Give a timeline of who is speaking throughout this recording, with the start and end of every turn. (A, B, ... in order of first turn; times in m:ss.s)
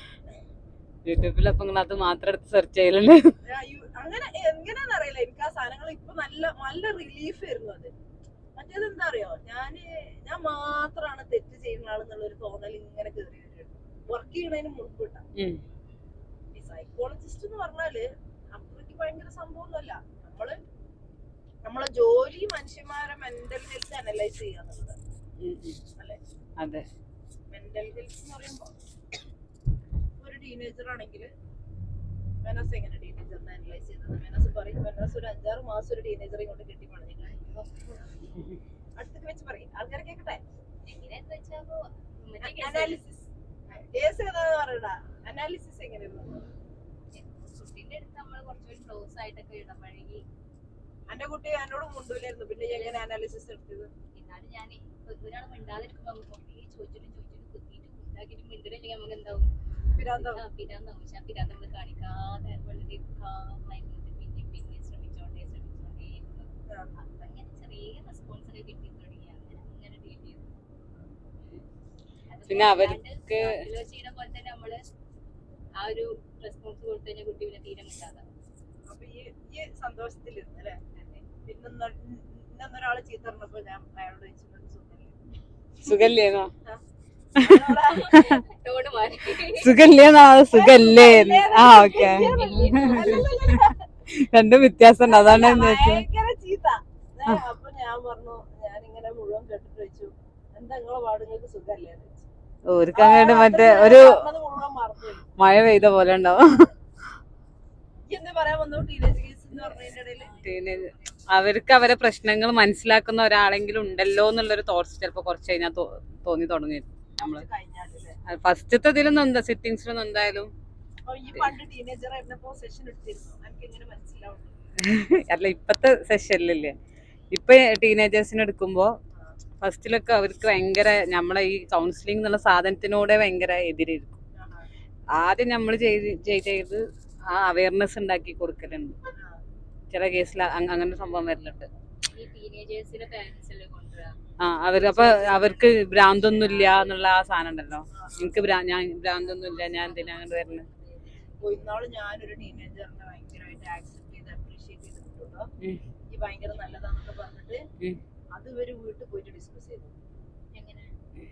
0:01.1-0:03.3 A
0:03.5-0:07.9 B
0:08.6-0:15.2 B
0:15.4-0:15.6 A
0:16.5-0:20.6 B
0:21.6-0:25.0 B
0:25.4-0:25.8 A
0:26.6-0:26.8 A
0:27.5-0:28.7 B
0:30.2-0:31.3 B
0:32.4-0:38.2 B
0:39.0-0:40.4 B
0:40.8-0:43.0 C
0:42.4-0:46.5 B
0:47.1-0:50.2 C
0:51.1-0:53.9 B
0:52.6-0:53.0 C
0:54.1-1:10.6 C
1:00.0-1:00.4 B
1:12.3-1:14.8 C
1:12.5-1:13.6 A
1:15.8-1:18.2 C
1:18.9-1:25.2 B
1:25.8-1:26.5 A
1:27.4-1:28.2 B
1:27.5-1:28.4 A
1:27.9-1:29.8 C
1:29.5-1:36.0 A
1:30.5-1:33.8 B
1:31.5-1:33.5 C
1:35.1-1:42.3 B
1:42.7-1:44.2 A
1:42.9-1:45.3 B
1:45.4-1:46.7 A
1:48.1-1:50.4 B
1:49.7-1:51.3 C
1:50.4-1:57.5 A
1:57.2-1:58.2 B
1:58.3-2:00.5 A
2:01.1-2:04.6 B
2:04.8-2:06.8 A
2:07.3-2:08.9 A
2:09.1-2:09.4 B
2:09.6-2:14.2 A
2:14.4-2:14.7 B
2:15.2-2:19.0 A
2:19.2-2:19.4 B
2:19.9-2:21.7 A
2:22.0-2:24.2 C
2:24.4-2:30.7 A
2:24.8-2:27.1 C
2:24.8-2:25.2 B
2:27.9-2:28.5 B
2:29.2-2:31.8 C
2:31.4-2:35.5 B
2:36.1-2:37.6 B
2:38.3-2:40.0 B
2:40.5-2:41.0 C